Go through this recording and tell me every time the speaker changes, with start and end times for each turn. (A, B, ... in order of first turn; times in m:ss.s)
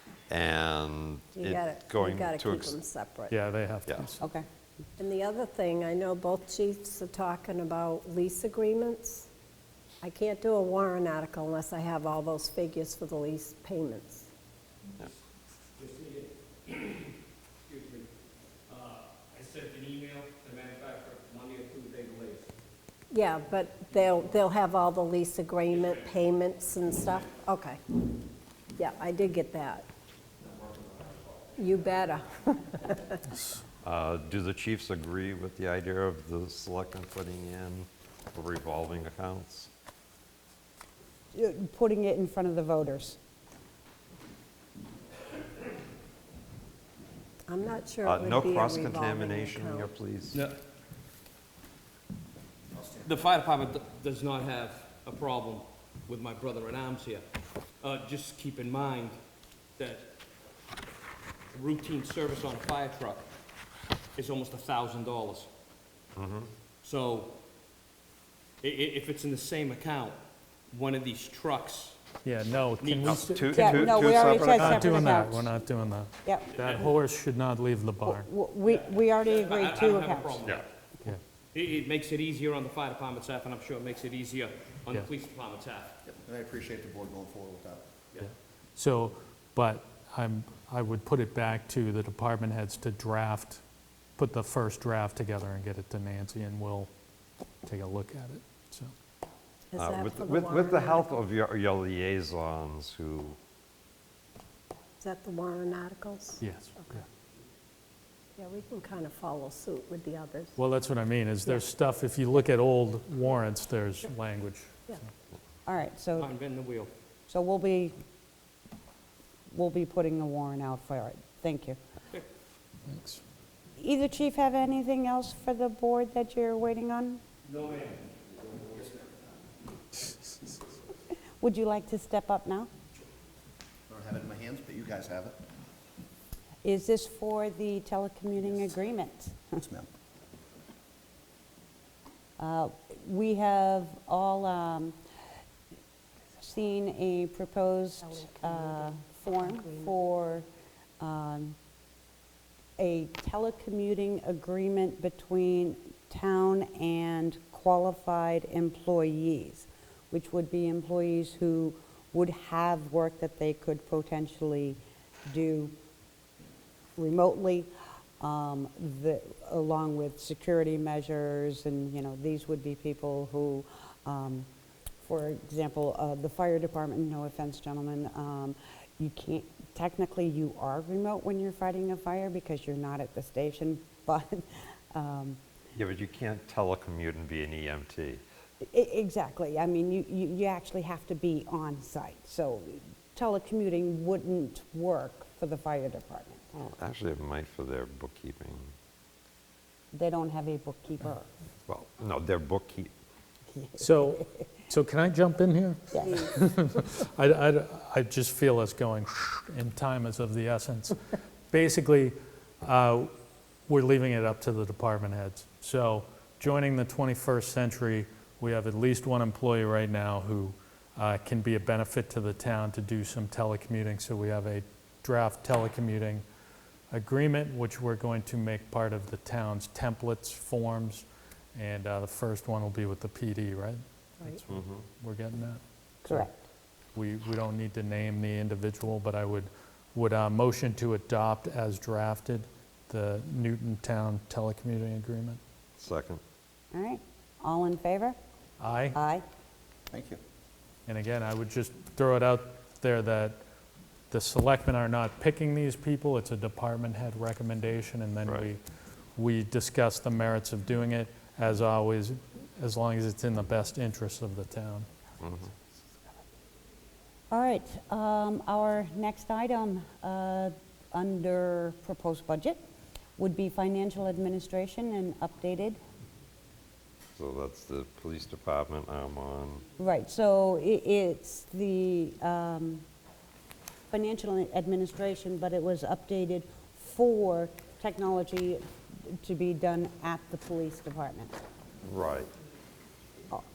0:00.3-0:02.8 A
0:01.4-0:03.4 B
0:03.3-0:04.2 C
0:05.0-0:09.3 B
0:10.0-0:14.3 B
0:15.8-0:17.1 D
0:17.6-0:18.1 D
0:18.7-0:22.5 D
0:23.1-0:27.8 B
0:25.7-0:26.1 D
0:28.8-0:29.8 B
0:31.0-0:31.3 D
0:31.6-0:33.2 B
0:33.8-0:39.7 A
0:41.3-0:43.2 E
0:47.5-0:49.9 B
0:48.0-0:50.4 A
0:52.8-0:53.2 F
0:53.0-0:57.2 D
0:57.8-0:59.2 D
0:59.8-1:00.1 D
1:01.5-1:03.2 D
1:04.2-1:05.5 D
1:06.2-1:06.5 A
1:06.8-1:07.3 D
1:08.6-1:10.2 D
1:10.7-1:12.0 D
1:12.2-1:18.3 C
1:12.8-1:13.2 D
1:13.0-1:15.0 A
1:13.5-1:15.5 E
1:16.5-1:16.9 D
1:18.0-1:20.5 E
1:18.6-1:20.7 D
1:21.5-1:25.9 D
1:26.1-1:27.9 F
1:28.8-1:33.6 C
1:34.2-1:36.9 C
1:37.7-1:38.9 C
1:39.7-1:41.2 B
1:39.8-1:43.4 A
1:45.0-1:46.4 B
1:46.4-1:47.0 C
1:48.4-1:50.6 B
1:50.6-1:55.0 C
1:55.7-1:56.3 E
1:56.2-1:56.9 D
1:57.3-1:58.0 E
1:59.5-2:01.8 E
2:02.9-2:03.2 C
2:03.8-2:07.2 E
2:07.4-2:09.0 D
2:11.4-2:12.7 E
2:13.9-2:15.4 F
2:16.6-2:19.6 E
2:19.6-2:19.9 F
2:22.4-2:25.0 E
2:26.4-2:30.5 E
2:28.2-2:29.9 B
2:31.0-2:31.6 E
2:32.8-2:45.8 E
2:47.0-2:54.5 E
2:55.0-3:05.4 E
3:05.8-3:08.2 A
3:08.7-3:16.6 E
3:16.6-3:18.7 A
3:19.9-3:21.3 E
3:21.7-3:22.9 A
3:23.5-3:24.3 E
3:23.8-3:31.0 C
3:25.9-3:26.4 E
3:31.5-3:33.1 C
3:33.7-3:46.2 C
3:46.9-3:56.3 C
3:54.5-3:54.8 A
3:56.0-3:56.5 E
3:57.0-4:05.4 C
4:05.8-4:06.2 A
4:06.7-4:08.2 E
4:08.6-4:09.0 C
4:08.9-4:09.2 E
4:09.9-4:10.2 F
4:10.9-4:13.4 C
4:14.1-4:18.6 C
4:19.2-4:24.9 C
4:25.2-4:25.5 A
4:27.3-4:32.6 E
4:33.2-4:35.8 E
4:37.2-4:39.6 A
4:39.8-4:42.8 E
4:43.9-4:51.4 E
4:51.8-4:52.3 A